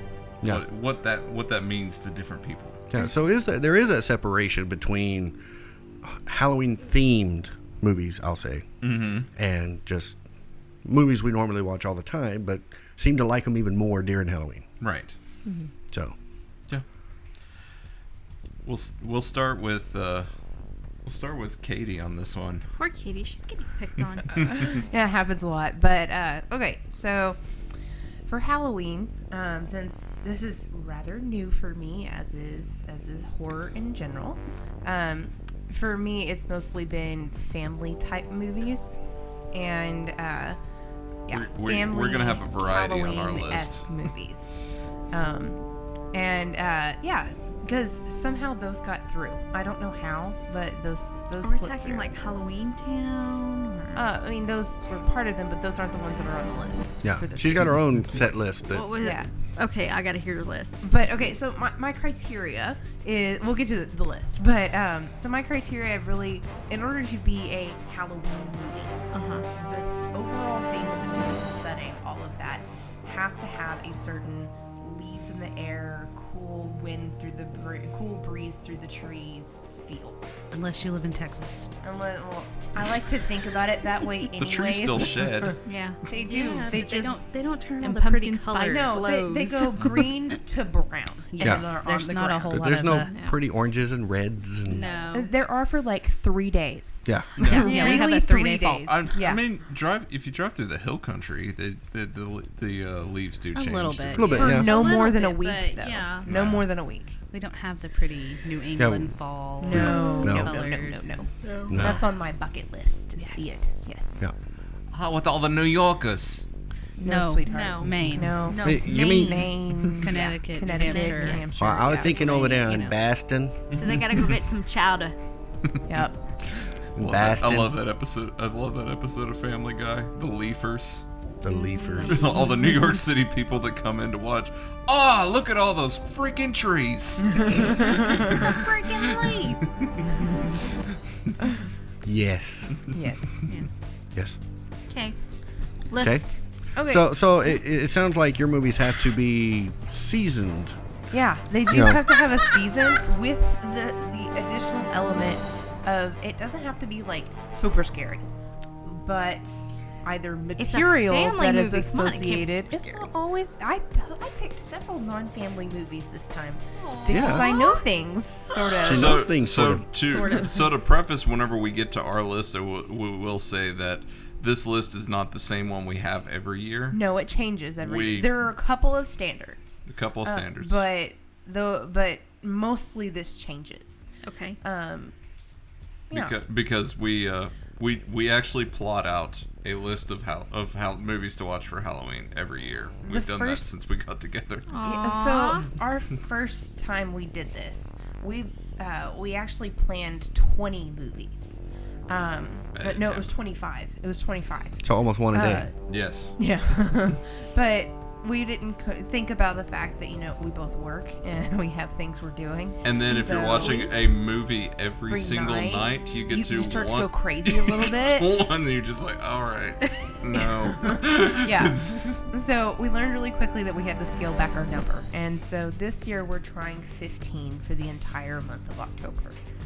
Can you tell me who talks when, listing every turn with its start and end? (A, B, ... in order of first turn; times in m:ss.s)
0:00.4-0:02.8 A
0:02.9-0:05.4 B
0:06.0-0:08.7 B
0:08.8-0:09.3 A
0:09.3-0:10.2 B
0:10.8-0:14.6 B
0:14.8-0:15.1 A
0:15.4-0:15.7 C
0:15.9-0:16.1 B
0:18.6-0:20.3 A
0:21.0-0:22.6 A
0:22.8-0:24.8 D
0:24.6-0:27.4 C
0:28.3-0:39.0 C
0:39.5-0:40.6 C
0:41.3-0:44.6 C
0:41.3-0:43.9 A
0:45.1-0:52.1 C
0:51.4-0:54.1 D
0:53.9-0:57.8 C
0:57.0-0:58.9 B
0:58.7-1:00.9 D
0:59.0-0:59.3 C
1:00.8-1:09.0 C
1:09.1-1:09.5 D
1:09.5-1:20.2 C
1:20.5-1:21.7 E
1:21.8-1:27.3 C
1:24.3-1:25.6 A
1:25.6-1:26.6 D
1:26.2-1:29.2 E
1:27.8-1:29.9 D
1:28.7-1:33.0 C
1:31.3-1:33.1 E
1:31.4-1:31.7 B
1:32.5-1:34.9 B
1:33.1-1:33.4 D
1:34.7-1:35.3 D
1:34.8-1:39.4 C
1:37.0-1:37.3 B
1:37.4-1:37.7 A
1:37.4-1:39.0 E
1:37.6-1:38.1 D
1:38.9-1:44.3 A
1:43.5-1:44.6 E
1:44.1-1:44.8 B
1:44.3-1:47.2 C
1:44.3-1:46.3 D
1:46.3-1:46.7 A
1:47.3-1:51.3 E
1:48.7-1:50.6 B
1:49.6-1:54.2 C
1:49.9-1:50.3 D
1:51.4-1:52.0 D
1:51.7-1:52.0 B
1:53.2-1:53.7 E
1:54.9-1:56.4 A
1:57.0-2:02.7 C
1:57.0-1:58.5 E
1:57.4-1:59.5 D
1:58.6-1:59.5 B
2:00.0-2:01.4 E
2:00.2-2:02.9 D
2:01.6-2:03.7 B
2:03.7-2:05.2 D
2:05.9-2:06.2 C
2:07.0-2:07.8 B
2:07.0-2:11.0 A
2:11.4-2:12.2 B
2:11.5-2:12.5 D
2:12.0-2:19.4 A
2:18.2-2:19.6 D
2:22.0-2:22.7 B
2:22.9-2:23.4 C
2:24.9-2:25.2 D
2:25.9-2:26.4 D
2:26.8-2:27.1 C
2:26.8-2:30.8 B
2:31.1-2:38.3 C
2:31.7-2:32.0 B
2:38.8-2:49.3 C
2:40.6-2:43.1 D
2:46.8-2:47.8 D
2:47.1-2:47.5 B
2:48.8-2:49.9 B
2:48.8-2:57.0 A
2:50.2-2:50.6 C
2:56.9-3:04.0 C
2:57.8-2:58.4 A
2:59.9-3:00.8 A
3:04.2-3:04.6 D
3:04.6-3:05.1 C
3:06.1-3:06.3 C
3:06.1-3:14.7 A
3:13.0-3:13.7 C
3:14.7-3:15.7 D
3:14.8-3:25.7 C
3:22.7-3:23.3 A
3:24.8-3:25.7 B
3:25.9-3:26.4 A
3:26.4-3:33.9 C
3:32.8-3:42.2 A
3:33.1-3:33.9 D
3:35.1-3:38.4 C
3:40.3-3:49.4 C